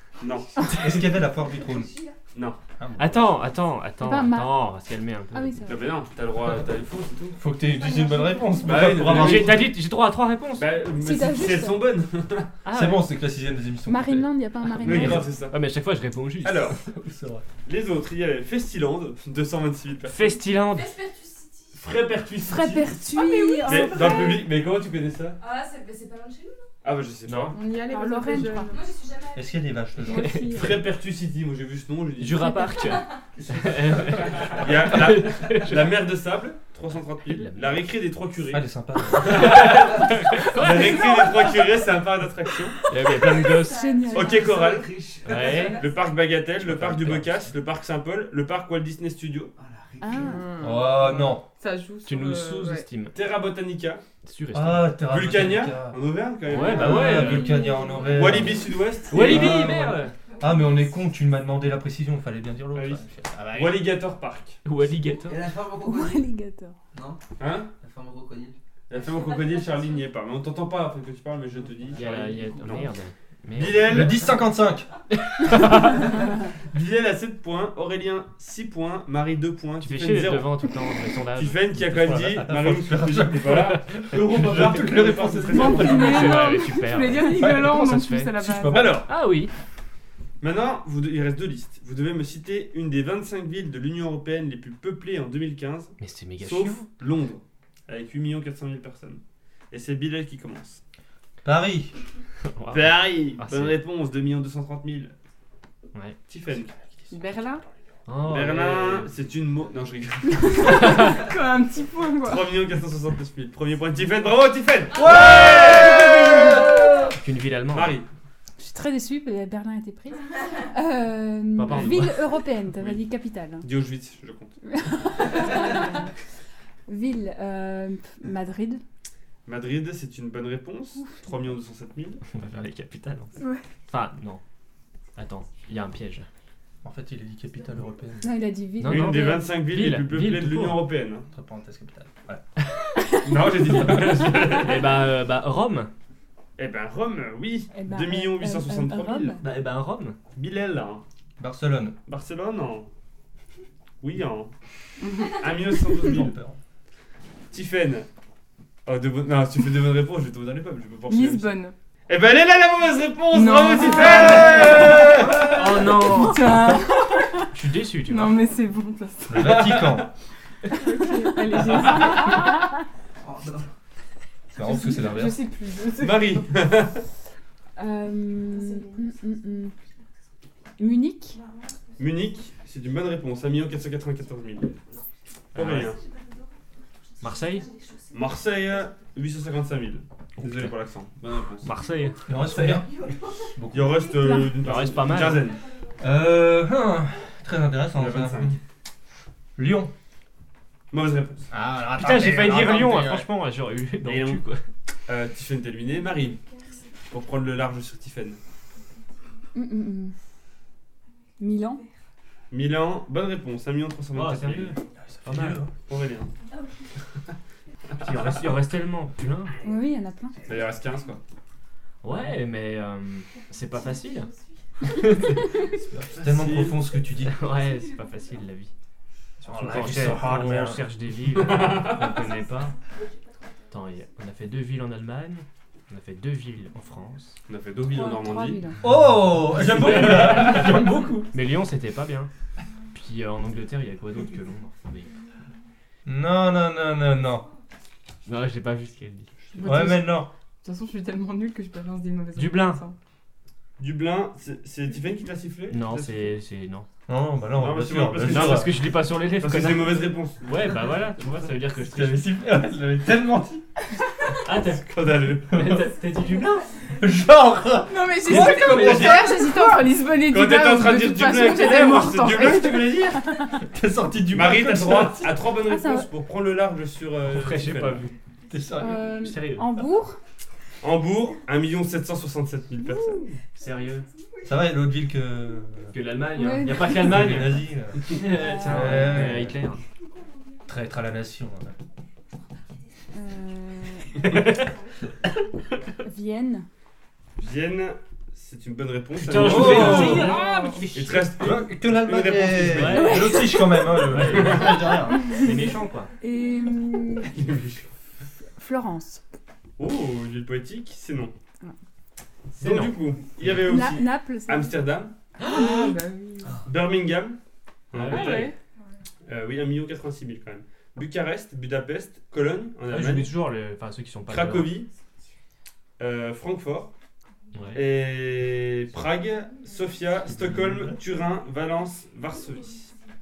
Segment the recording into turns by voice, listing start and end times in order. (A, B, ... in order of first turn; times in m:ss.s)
0:00.2-0:00.8 A
0:00.8-0:02.0 B
0:01.5-0:02.1 C
0:02.3-0:02.6 A
0:02.8-0:03.4 B
0:03.0-0:05.7 D
0:04.0-0:04.7 E
0:05.3-0:05.9 E
0:05.7-0:07.4 A
0:07.4-0:09.7 B
0:07.8-0:08.7 C
0:08.6-0:09.7 A
0:08.9-0:10.7 D
0:10.6-0:12.5 A
0:10.9-0:11.9 E
0:12.6-0:13.1 D
0:12.7-0:14.3 B
0:13.8-0:15.3 E
0:14.8-0:16.9 D
0:14.8-0:15.5 A
0:14.9-0:15.2 B
0:16.4-0:16.8 A
0:16.9-0:17.4 B
0:17.6-0:20.4 A
0:20.1-0:21.0 D
0:20.7-0:21.8 C
0:21.8-0:25.4 A
0:22.4-0:24.4 E
0:23.1-0:24.4 F
0:25.4-0:26.7 C
0:26.8-0:27.6 A
0:27.2-0:27.6 D
0:27.5-0:29.0 F
0:27.9-0:28.7 E
0:28.7-0:29.7 C
0:29.3-0:30.5 B
0:30.1-0:30.8 D
0:30.1-0:30.8 F
0:30.5-0:32.6 A
0:32.2-0:36.0 D
0:32.8-0:33.2 C
0:34.0-0:34.6 B
0:34.6-0:42.8 A
0:37.3-0:37.8 D
0:38.5-0:39.7 B
0:39.2-0:41.2 D
0:40.8-0:41.5 C
0:42.9-0:43.8 D
0:43.0-0:46.1 C
0:43.6-0:44.5 E
0:44.1-0:45.0 A
0:44.4-0:45.7 G
0:45.2-0:45.8 D
0:45.7-0:49.5 A
0:46.6-0:47.5 D
0:49.6-0:50.6 G
0:50.0-0:50.4 E
0:50.2-0:52.9 F
0:50.6-0:51.4 B
0:52.0-0:53.2 D
0:53.1-0:54.0 A
0:54.2-0:55.0 D
0:54.5-0:56.0 B
0:55.1-0:57.4 A
0:56.5-0:57.6 D
0:56.6-1:03.6 B
0:57.1-0:58.4 E
0:58.0-0:59.8 A
0:59.0-1:00.1 D
1:02.7-1:04.6 A
1:03.3-1:03.9 D
1:04.6-1:05.4 D
1:05.2-1:06.3 G
1:05.8-1:06.8 E
1:06.9-1:07.2 G
1:07.4-1:07.7 A
1:07.8-1:08.6 G
1:08.9-1:12.9 A
1:09.3-1:10.0 C
1:11.9-1:14.3 D
1:13.5-1:14.4 A
1:13.8-1:14.9 B
1:15.2-1:16.1 D
1:15.6-1:20.5 A
1:19.8-1:21.8 D
1:21.4-1:26.4 A
1:21.8-1:26.4 B
1:23.5-1:23.8 D
1:25.5-1:28.9 F
1:25.6-1:28.3 D
1:27.3-1:29.0 B
1:28.7-1:29.1 A
1:29.1-1:29.5 D
1:30.4-1:40.8 A
1:36.0-1:36.8 D
1:41.4-1:41.9 B
1:42.5-1:43.8 D
1:42.7-1:45.1 A
1:46.3-1:46.7 A
1:46.5-1:47.2 B
1:47.1-1:47.6 F
1:48.0-1:49.1 D
1:48.2-1:51.2 A
1:50.4-1:52.5 F
1:52.2-1:56.7 A
1:55.0-1:56.0 B
1:55.7-1:57.1 E
1:57.2-1:58.0 D
1:57.7-1:58.1 A
1:58.6-2:03.7 E
2:01.6-2:02.2 D
2:01.7-2:02.0 A
2:03.6-2:04.6 A
2:04.7-2:06.0 E
2:06.9-2:08.8 E
2:09.4-2:12.2 A
2:12.3-2:13.3 D
2:13.9-2:14.4 D
2:15.2-2:16.3 D
2:16.8-2:18.3 B
2:18.2-2:19.5 E
2:18.8-2:20.8 D
2:18.8-2:21.3 A
2:21.3-2:22.4 B
2:23.2-2:25.0 A
2:23.8-2:25.9 D
2:26.6-2:29.4 A
2:27.7-2:29.4 E
2:29.4-2:30.2 D
2:30.3-2:31.0 A
2:31.4-2:32.0 B
2:32.1-2:32.9 A
2:34.0-2:34.5 A
2:35.0-2:35.8 F
2:35.3-2:36.4 A
2:36.0-2:36.6 B
2:37.5-2:38.1 A
2:38.8-2:41.5 A
2:41.1-2:41.7 F
2:42.1-2:46.0 A
2:43.3-2:44.9 F
2:45.4-2:46.8 D
2:46.0-2:47.5 F
2:47.5-2:48.5 D
2:48.0-2:49.6 F
2:49.3-2:50.1 B
2:49.3-2:50.1 A
2:50.7-2:52.6 F
2:51.5-2:52.2 A
2:53.2-2:53.7 G
2:54.5-2:55.5 B
2:54.6-2:56.4 F
2:56.0-2:57.0 A
2:57.8-2:59.7 E
2:58.6-2:58.9 C
3:00.8-3:01.4 E
3:02.0-3:04.8 A
3:05.5-3:06.0 A
3:05.5-3:05.9 D
3:05.8-3:06.4 C
3:07.2-3:07.7 D
3:07.2-3:08.0 C
3:08.1-3:11.7 A
3:10.4-3:10.7 D
3:11.6-3:12.8 D
3:12.2-3:14.2 B
3:13.7-3:15.6 A
3:14.2-3:14.5 E
3:14.6-3:15.5 D
3:16.0-3:18.6 B
3:17.9-3:18.6 A
3:19.6-3:19.9 B
3:20.9-3:21.5 A
3:21.5-3:23.3 B
3:22.0-3:24.6 D
3:24.0-3:24.4 A
3:25.1-3:26.4 A
3:27.1-3:28.4 A
3:29.5-3:30.1 E
3:31.4-3:31.8 E
3:32.5-3:34.8 A
3:34.1-3:35.6 D
3:35.0-3:35.7 B
3:35.9-3:36.3 A
3:38.0-3:39.5 D
3:38.0-3:38.4 A
3:39.6-3:40.4 E
3:40.4-3:41.2 A
3:42.0-3:44.3 D
3:43.8-3:44.4 C
3:44.8-3:45.7 D
3:45.9-3:46.8 A
3:46.1-3:47.4 B
3:47.2-3:48.7 D
3:49.4-3:52.7 D
3:49.5-3:50.8 B
3:49.7-3:50.1 A
3:51.3-3:52.2 A
3:53.0-3:53.5 C
3:53.7-3:57.4 D
3:57.5-3:58.7 A
3:57.9-3:58.8 E
3:58.8-4:01.3 B
3:59.5-4:00.8 A
3:59.6-4:02.3 D
4:02.9-4:05.1 D
4:06.0-4:07.5 B
4:08.2-4:09.3 D
4:09.4-4:09.8 A
4:09.5-4:13.0 F
4:09.6-4:10.3 B
4:12.3-4:12.8 D
4:13.8-4:16.4 A
4:15.7-4:16.9 D
4:17.1-4:18.7 B
4:17.5-4:20.9 A
4:18.2-4:22.3 D
4:21.8-4:23.6 B
4:24.4-4:24.8 D
4:24.7-4:25.7 A
4:25.4-4:26.7 D
4:25.5-4:25.9 B
4:27.0-4:29.5 B
4:27.8-4:32.9 F
4:28.3-4:28.6 D
4:28.3-4:29.5 A
4:30.3-4:33.2 A
4:31.5-4:35.3 B
4:33.1-4:33.6 E
4:34.3-4:38.0 A
4:35.6-4:36.1 E
4:37.2-4:38.1 D
4:38.5-4:39.3 B
4:38.7-4:40.2 E
4:39.1-4:39.7 D
4:40.8-4:43.3 A
4:43.6-4:44.0 D
4:44.4-4:45.9 B
4:45.9-4:49.8 D
4:46.3-4:47.0 E
4:46.8-4:49.6 B
4:48.5-4:49.0 E
4:50.6-4:51.7 B
4:53.1-4:54.2 E
4:54.2-4:54.7 D
4:56.0-4:56.6 E
4:57.4-5:00.4 A
4:59.1-5:01.0 D
4:59.4-5:00.4 B
4:59.9-5:00.9 F
5:00.2-5:00.8 E
5:00.9-5:05.0 A
5:01.1-5:05.3 B
5:02.7-5:06.1 D
5:02.9-5:04.0 E
5:06.2-5:07.3 E
5:07.2-5:07.9 A
5:08.6-5:09.2 E
5:09.8-5:11.3 A
5:12.5-5:15.1 A
5:12.6-5:13.8 D
5:13.6-5:14.8 E
5:15.4-5:16.0 D
5:15.4-5:16.6 F
5:16.6-5:17.4 A
5:17.9-5:18.5 A
5:17.9-5:18.5 D
5:18.1-5:18.5 F
5:19.2-5:23.3 A
5:22.9-5:24.8 D
5:24.3-5:24.9 A
5:26.0-5:26.9 A
5:27.5-5:27.8 D
5:27.7-5:32.9 A
5:30.2-5:31.0 B